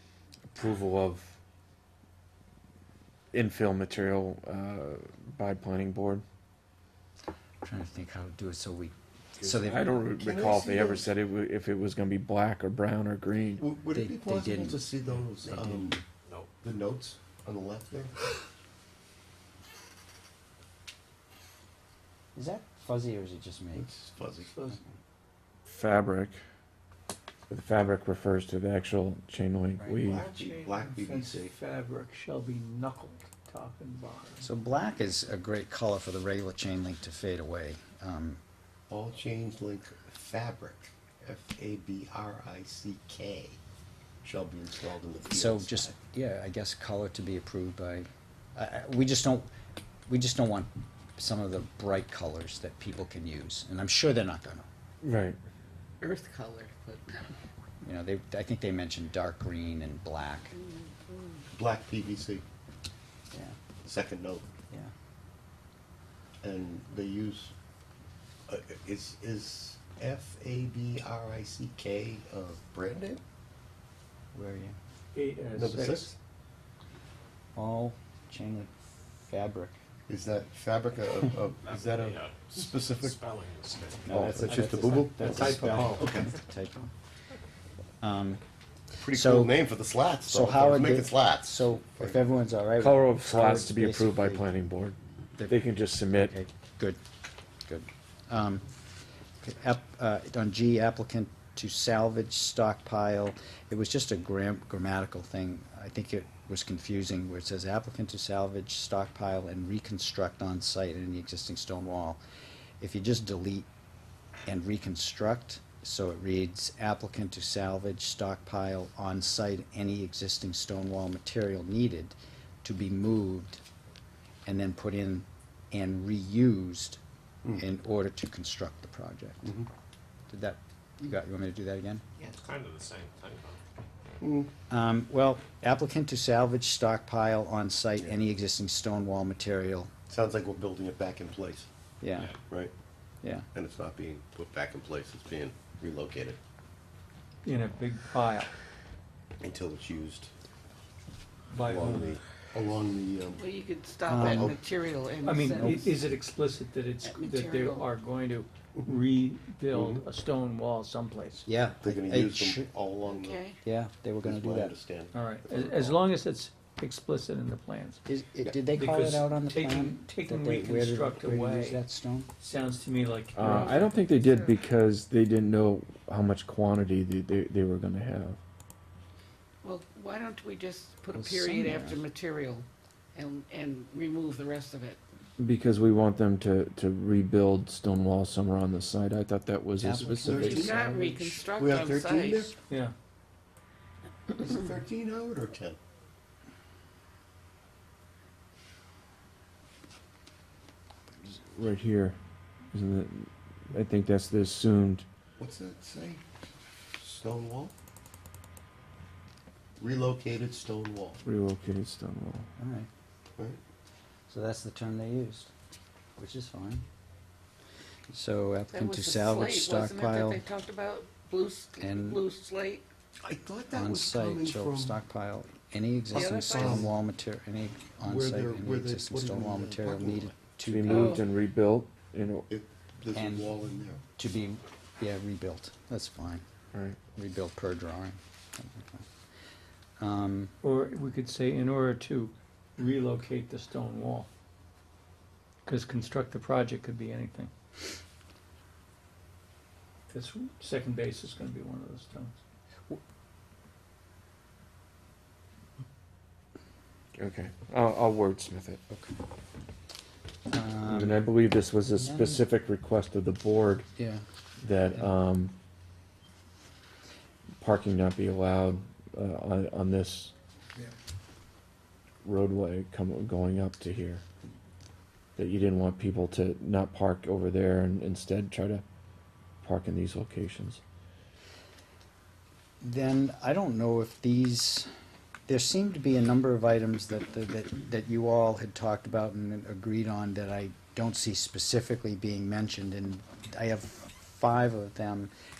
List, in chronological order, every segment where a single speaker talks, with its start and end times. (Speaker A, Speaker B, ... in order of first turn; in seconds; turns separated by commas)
Speaker A: 0.5-1.4, Speaker A: 3.3-6.2, Speaker B: 7.6-9.9, Speaker A: 9.4-13.7, Speaker C: 10.1-11.1, Speaker C: 13.6-16.0, Speaker B: 13.9-14.8, Speaker A: 15.5-15.8, Speaker C: 16.6-18.3, Speaker B: 22.4-23.9, Speaker C: 23.7-24.6, Speaker D: 24.4-24.8, Speaker A: 25.7-26.4, Speaker A: 27.5-30.2, Speaker C: 30.1-31.6, Speaker D: 30.1-34.5, Speaker B: 34.4-38.4, Speaker C: 38.9-43.6, Speaker C: 44.2-45.9, Speaker B: 45.3-49.5, Speaker B: 50.1-54.7, Speaker A: 55.0-55.4, Speaker E: 56.0-57.3, Speaker B: 57.8-60.6, Speaker C: 61.5-62.4, Speaker C: 63.8-64.5, Speaker C: 66.4-67.5, Speaker C: 68.5-73.2, Speaker B: 74.3-74.8, Speaker D: 75.1-76.2, Speaker C: 75.5-76.2, Speaker B: 77.5-79.7, Speaker C: 80.1-83.2, Speaker F: 81.6-84.8, Speaker B: 83.6-86.9, Speaker C: 84.1-86.3, Speaker D: 85.1-86.2, Speaker B: 88.0-88.4, Speaker C: 89.0-92.2, Speaker B: 89.1-89.6, Speaker B: 90.3-94.5, Speaker A: 92.8-96.3, Speaker B: 95.4-97.0, Speaker B: 97.7-98.7, Speaker B: 99.4-112.2, Speaker B: 112.8-113.7, Speaker B: 114.5-123.6, Speaker B: 124.5-127.0, Speaker B: 127.6-129.5, Speaker C: 129.4-129.7, Speaker B: 130.3-132.0, Speaker F: 132.2-133.6, Speaker C: 134.2-134.5, Speaker B: 134.7-139.9, Speaker C: 140.1-141.7, Speaker B: 142.0-142.3, Speaker F: 142.1-142.4, Speaker C: 142.5-142.7, Speaker B: 143.2-143.5, Speaker C: 143.5-146.4, Speaker D: 147.4-148.5, Speaker C: 149.4-150.3, Speaker D: 151.5-152.2, Speaker C: 151.6-153.5, Speaker E: 153.4-156.0, Speaker B: 154.1-154.6, Speaker C: 154.1-154.6, Speaker D: 155.2-161.5, Speaker E: 157.0-157.9, Speaker C: 159.7-160.1, Speaker B: 161.4-162.7, Speaker C: 161.8-163.5, Speaker E: 163.1-163.6, Speaker B: 163.6-164.8, Speaker C: 164.2-166.0, Speaker D: 165.1-168.0, Speaker B: 168.1-172.3, Speaker D: 168.6-171.8, Speaker D: 172.4-174.0, Speaker A: 173.3-178.4, Speaker E: 179.6-185.0, Speaker B: 181.2-182.0, Speaker A: 185.4-190.7, Speaker B: 189.8-191.4, Speaker C: 190.2-192.6, Speaker E: 190.4-192.5, Speaker C: 194.3-195.8, Speaker A: 201.3-202.2, Speaker A: 202.7-205.1, Speaker C: 205.4-206.2, Speaker C: 207.0-207.7, Speaker C: 209.8-211.2, Speaker A: 211.2-212.5, Speaker B: 212.6-212.9, Speaker B: 214.3-215.5, Speaker B: 216.2-216.8, Speaker B: 218.1-220.4, Speaker E: 218.7-222.8, Speaker B: 221.8-222.2, Speaker C: 223.2-225.0, Speaker B: 223.7-231.2, Speaker E: 226.1-226.8, Speaker C: 226.1-226.9, Speaker C: 228.0-230.3, Speaker A: 230.6-232.5, Speaker E: 230.8-231.2, Speaker C: 232.5-234.0, Speaker B: 233.1-233.5, Speaker B: 234.2-236.4, Speaker A: 236.7-237.0, Speaker B: 237.2-239.0, Speaker B: 240.0-240.5, Speaker D: 240.6-244.3, Speaker D: 245.7-247.5, Speaker D: 250.1-252.4, Speaker A: 257.2-258.8, Speaker B: 258.9-259.1, Speaker B: 260.5-261.2, Speaker A: 260.9-263.9, Speaker B: 262.0-262.4, Speaker B: 264.0-264.2, Speaker A: 264.6-265.5, Speaker A: 267.6-270.3, Speaker A: 272.2-274.2, Speaker A: 275.4-278.9, Speaker A: 279.6-280.8, Speaker B: 282.8-284.9, Speaker B: 285.5-295.3